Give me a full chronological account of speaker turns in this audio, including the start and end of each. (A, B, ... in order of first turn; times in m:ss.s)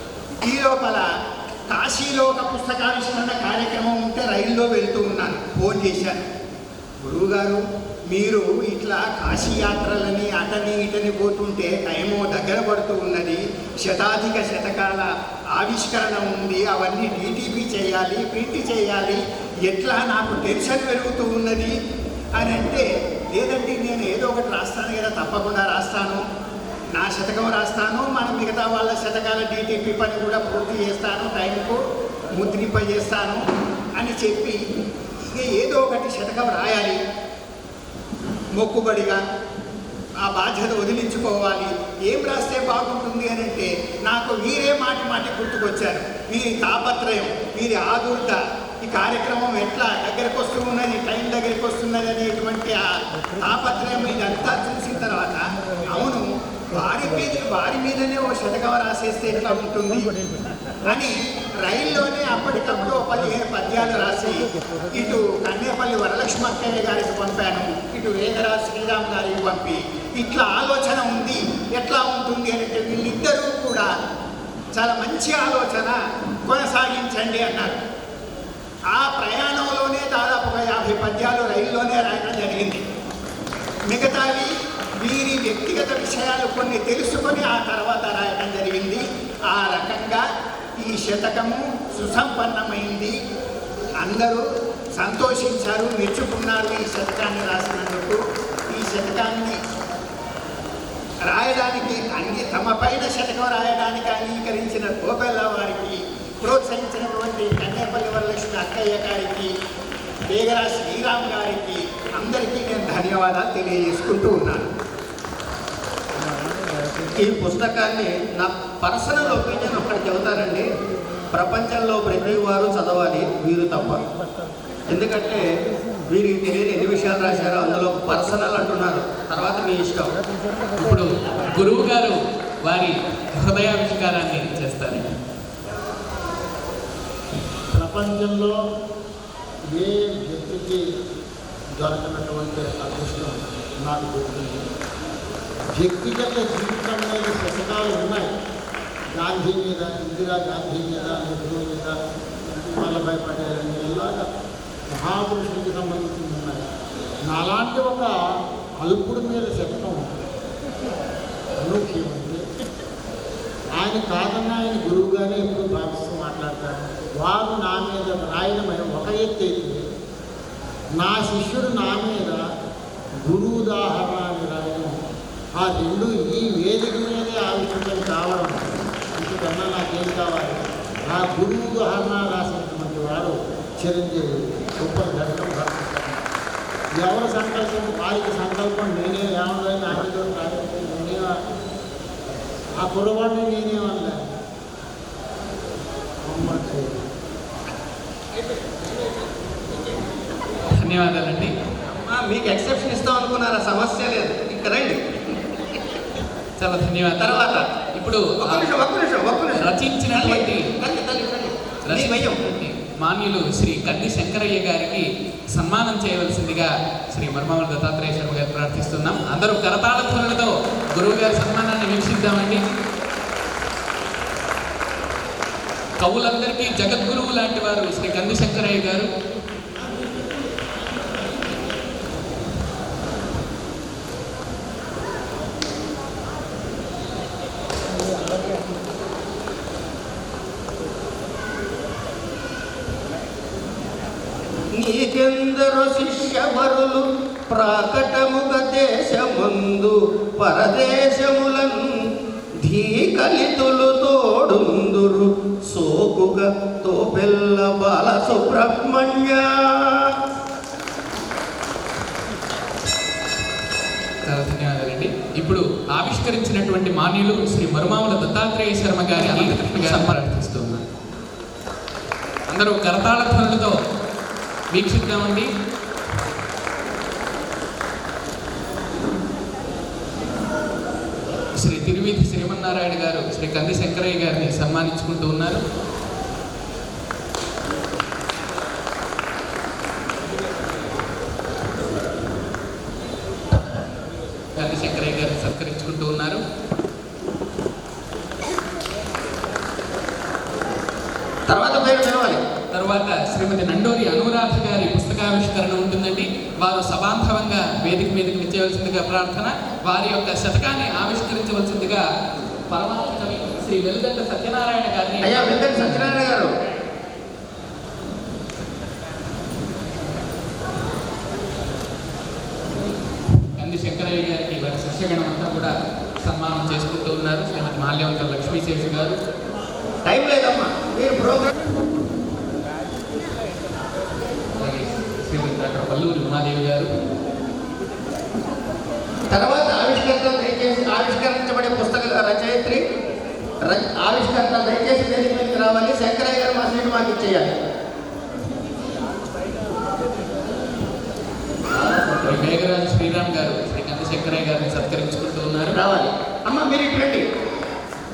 0:00.4-0:01.0 A
0:01.7-0:06.1 A
0:07.0-0:21.8 A
0:22.4-0:26.2 A
0:27.0-0:31.8 A
0:32.4-0:33.4 A
0:34.0-0:34.6 A
0:35.2-0:37.0 A
0:38.6-0:39.2 A
0:40.2-0:52.8 A
0:53.4-1:00.1 A
1:00.8-1:13.9 A
1:14.7-1:16.0 A
1:16.5-1:17.8 A
1:18.9-1:22.8 A
1:23.9-1:30.2 A
1:30.8-1:33.2 A
1:34.0-1:34.4 A
1:35.0-1:38.2 A
1:38.7-1:39.6 A
1:41.3-1:49.5 A
1:50.3-1:54.7 A
1:57.2-2:00.7 B
2:01.3-2:04.0 B
2:04.9-2:05.5 B
2:06.1-2:10.2 B
2:10.8-2:15.1 C
2:17.7-2:18.5 D
2:19.7-2:20.8 D
2:21.8-2:24.6 D
2:25.8-2:28.3 D
2:29.2-2:31.9 D
2:32.7-2:34.2 D
2:34.9-2:36.6 D
2:37.3-2:38.1 D
2:38.8-2:40.2 D
2:41.6-2:42.4 D
2:43.8-2:49.8 D
2:51.0-2:52.4 D
2:53.2-2:55.0 D
2:55.6-3:00.6 D
3:01.1-3:06.2 D
3:07.0-3:11.4 D
3:12.8-3:14.2 D
3:16.3-3:17.0 D
3:20.8-3:21.5 C
3:21.9-3:25.0 B
3:26.6-3:28.7 C
3:27.2-3:27.6 B
3:28.4-3:32.4 B
3:29.5-3:30.6 C
3:31.8-3:42.6 C
3:46.0-3:49.1 C
4:04.8-4:11.8 B
4:12.6-4:19.4 B
4:24.2-4:30.8 C
4:32.5-4:33.7 C
4:34.7-4:35.5 C
4:41.6-4:45.6 C
4:54.5-4:56.4 C
5:01.5-5:02.4 B
5:02.7-5:12.0 C
5:12.7-5:16.2 C
5:15.2-5:16.5 B
5:23.6-5:25.7 C
5:26.2-5:29.2 C
5:30.0-5:31.5 B
5:34.6-5:36.9 C
5:39.3-5:42.8 B
5:43.6-5:47.6 B
5:52.0-5:55.8 C
5:55.7-5:57.2 B